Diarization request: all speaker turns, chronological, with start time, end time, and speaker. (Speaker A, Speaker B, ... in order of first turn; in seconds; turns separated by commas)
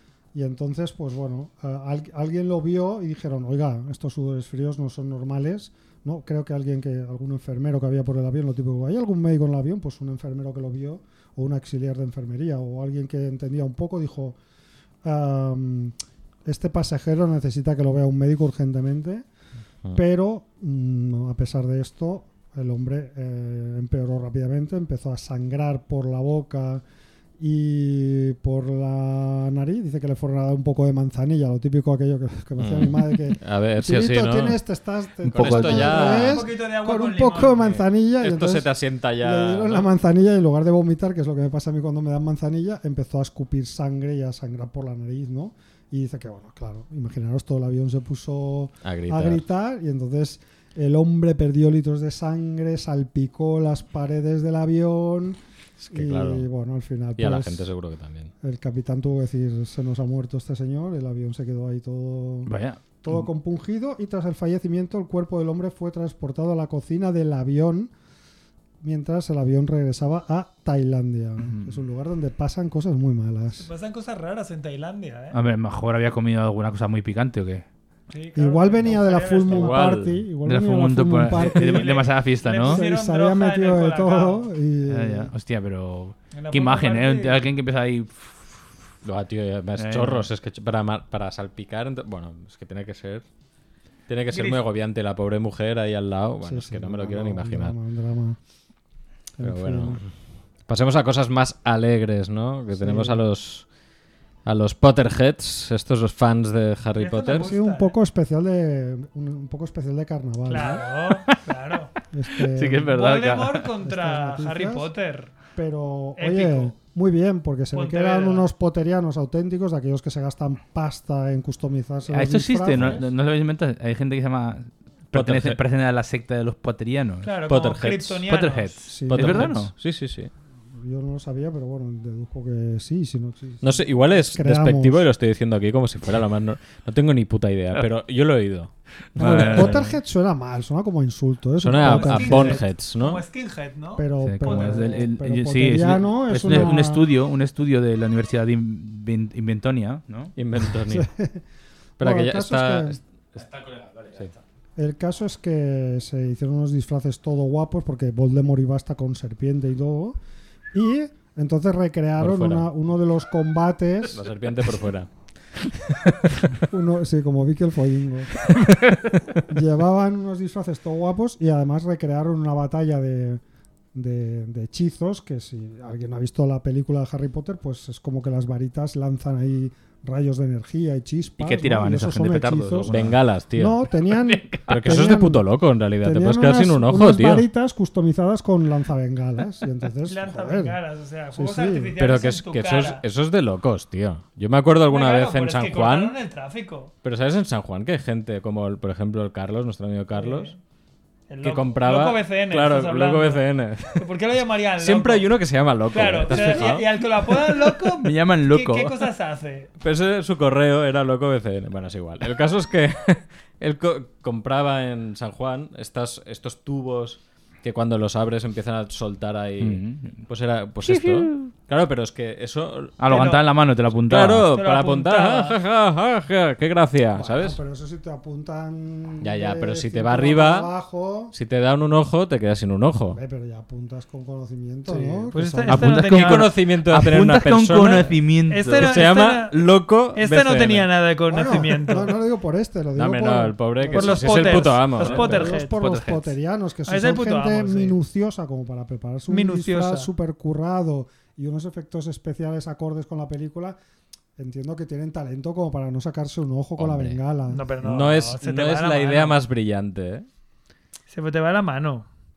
Speaker A: 0.3-14.4, Speaker A: 15.0-15.9, Speaker A: 16.4-19.3, Speaker A: 19.9-26.8, Speaker A: 27.4-55.4, Speaker B: 32.6-34.6, Speaker B: 35.3-36.5, Speaker C: 35.3-35.9, Speaker D: 35.8-37.7, Speaker B: 37.7-39.9, Speaker B: 48.8-49.4, Speaker B: 55.8-56.5, Speaker A: 55.9-57.7, Speaker B: 57.2-58.3, Speaker A: 58.4-67.9, Speaker C: 62.5-63.2, Speaker A: 68.8-73.7, Speaker C: 71.4-71.8, Speaker D: 73.6-75.4, Speaker C: 75.3-77.7, Speaker D: 78.1-79.8, Speaker A: 78.4-82.0, Speaker B: 79.5-80.2, Speaker C: 80.5-82.8, Speaker D: 81.4-84.5, Speaker A: 82.6-85.3, Speaker C: 84.9-88.7, Speaker D: 86.3-87.4, Speaker B: 89.0-93.2, Speaker C: 89.8-90.3, Speaker B: 94.1-97.7, Speaker D: 94.3-94.6, Speaker A: 96.4-98.4, Speaker A: 99.4-100.0, Speaker B: 99.4-100.1, Speaker B: 100.7-103.7, Speaker A: 102.8-103.2, Speaker B: 104.5-107.5, Speaker D: 107.0-107.9, Speaker A: 107.3-110.9, Speaker D: 110.5-111.9, Speaker A: 112.1-113.0, Speaker C: 112.4-113.7, Speaker D: 112.9-115.3, Speaker A: 113.8-114.9, Speaker A: 115.5-123.1, Speaker D: 116.2-116.7, Speaker D: 117.7-118.5, Speaker C: 122.1-127.3, Speaker B: 125.1-125.6, Speaker D: 127.2-128.9, Speaker B: 127.5-128.2, Speaker C: 128.3-129.7, Speaker A: 128.9-129.6, Speaker B: 129.1-130.3, Speaker A: 130.7-135.1, Speaker B: 133.6-140.0, Speaker C: 139.2-139.8, Speaker A: 139.2-142.7, Speaker B: 141.6-143.2, Speaker D: 141.7-145.1, Speaker A: 144.0-147.1, Speaker C: 144.2-150.3, Speaker B: 150.4-151.1, Speaker A: 150.9-151.4, Speaker A: 152.0-153.0, Speaker B: 152.0-153.5, Speaker C: 153.3-154.4, Speaker A: 154.8-160.2, Speaker A: 160.7-164.3, Speaker B: 162.2-162.7, Speaker B: 164.1-165.1, Speaker A: 166.7-168.4, Speaker A: 169.5-173.4, Speaker A: 173.9-185.5, Speaker C: 181.4-183.2, Speaker B: 182.9-183.8, Speaker C: 184.1-184.9, Speaker B: 184.7-187.4, Speaker A: 186.0-190.8, Speaker D: 190.1-193.0, Speaker A: 191.3-191.9, Speaker B: 192.0-196.2, Speaker D: 194.9-196.9, Speaker B: 197.0-200.5, Speaker D: 200.1-200.6, Speaker D: 201.3-205.3, Speaker B: 201.4-204.1, Speaker B: 204.8-206.9, Speaker D: 205.9-209.7, Speaker C: 206.3-206.7, Speaker C: 208.0-209.1, Speaker B: 209.8-223.3, Speaker C: 219.6-220.2, Speaker C: 220.8-221.5, Speaker C: 223.0-224.5, Speaker D: 223.1-223.4, Speaker B: 224.1-227.6, Speaker D: 224.5-225.6, Speaker A: 227.1-231.3, Speaker B: 229.2-230.7, Speaker B: 231.3-233.2, Speaker A: 233.1-235.9, Speaker D: 235.3-236.5, Speaker C: 235.7-239.0, Speaker B: 235.9-238.2, Speaker D: 238.5-242.1, Speaker B: 238.8-240.9, Speaker A: 241.3-253.8, Speaker B: 243.0-245.5, Speaker D: 243.9-245.8, Speaker C: 245.0-246.3, Speaker D: 246.9-248.0, Speaker D: 249.3-250.1, Speaker A: 254.4-257.6, Speaker B: 256.8-257.2, Speaker D: 257.5-259.4, Speaker B: 257.8-260.3, Speaker D: 261.1-262.1